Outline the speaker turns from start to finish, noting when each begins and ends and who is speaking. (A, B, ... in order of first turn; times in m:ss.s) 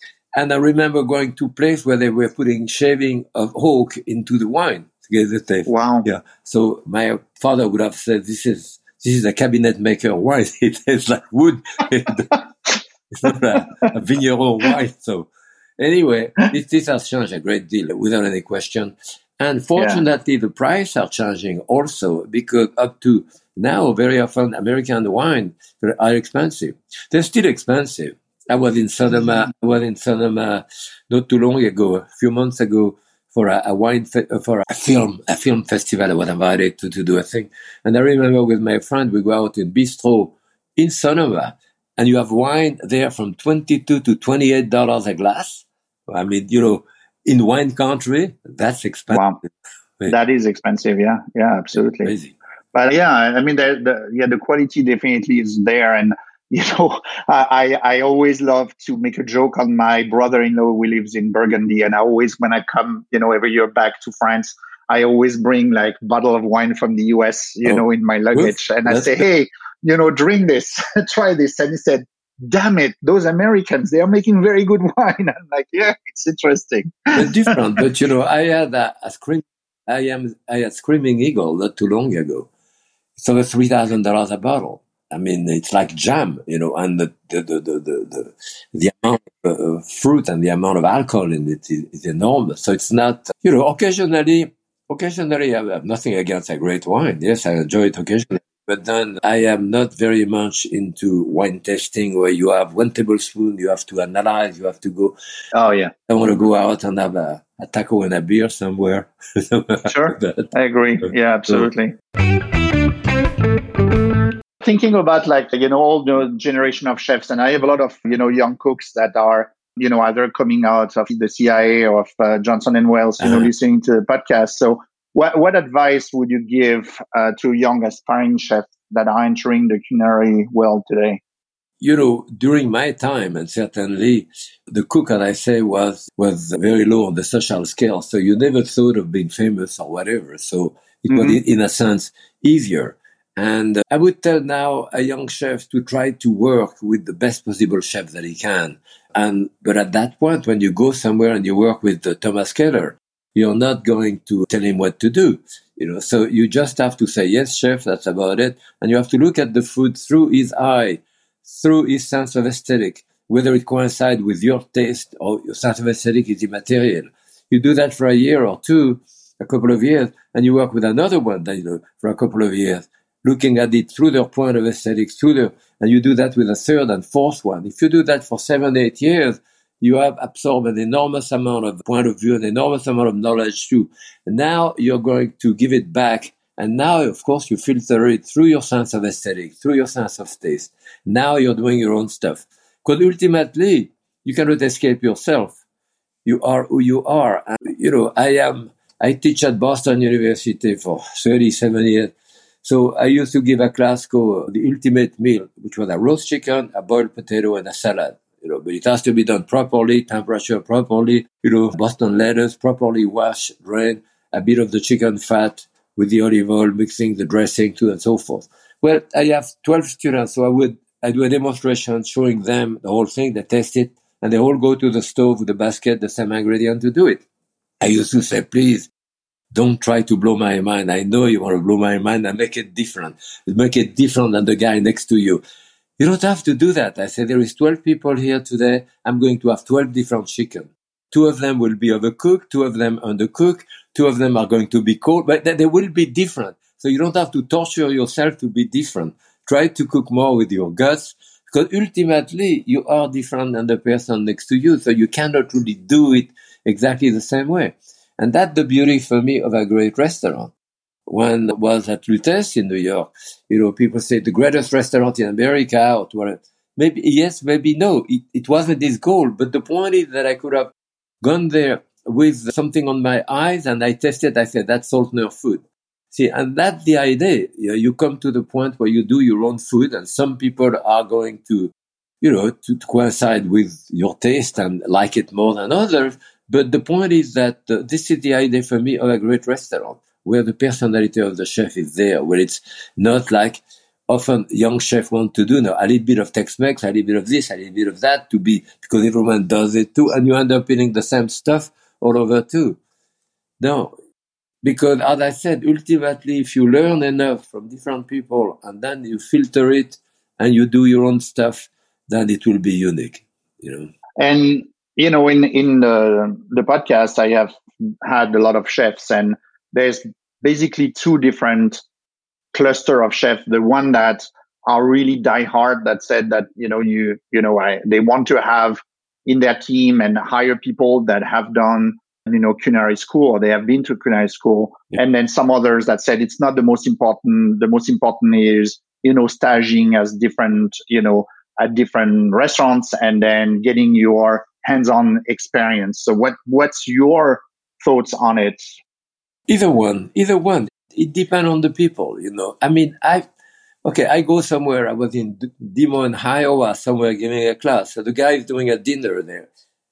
0:00.4-0:12.3 A
0:05.7-0:06.1 B
0:13.1-0:50.2 A
0:50.1-0:52.0 B
0:52.0-0:52.4 A
0:52.8-1:16.9 B
1:07.6-1:09.2 A
1:17.2-1:22.5 A
1:23.2-1:45.2 A
1:45.6-1:45.9 B
1:46.1-1:50.5 A
1:50.7-1:51.9 B
1:51.0-1:51.7 A
1:54.7-2:02.0 B
1:56.0-1:56.7 C
2:00.8-2:04.3 C
2:02.5-2:11.1 B
2:03.2-2:03.5 A
2:05.6-2:07.1 C
2:08.8-2:10.4 C
2:11.8-3:15.6 A
2:21.1-2:21.4 C
3:16.2-3:47.2 A
3:47.8-3:48.9 A
3:49.5-3:55.4 A
3:56.0-4:20.5 A
4:21.1-4:30.7 A
4:31.2-5:02.8 A
5:03.6-5:03.9 A
5:04.6-5:13.9 A
5:14.2-5:17.5 C
5:18.1-5:21.8 C
5:22.5-5:28.8 C
5:29.3-5:48.6 C
5:49.5-5:53.3 A
5:53.8-5:59.5 A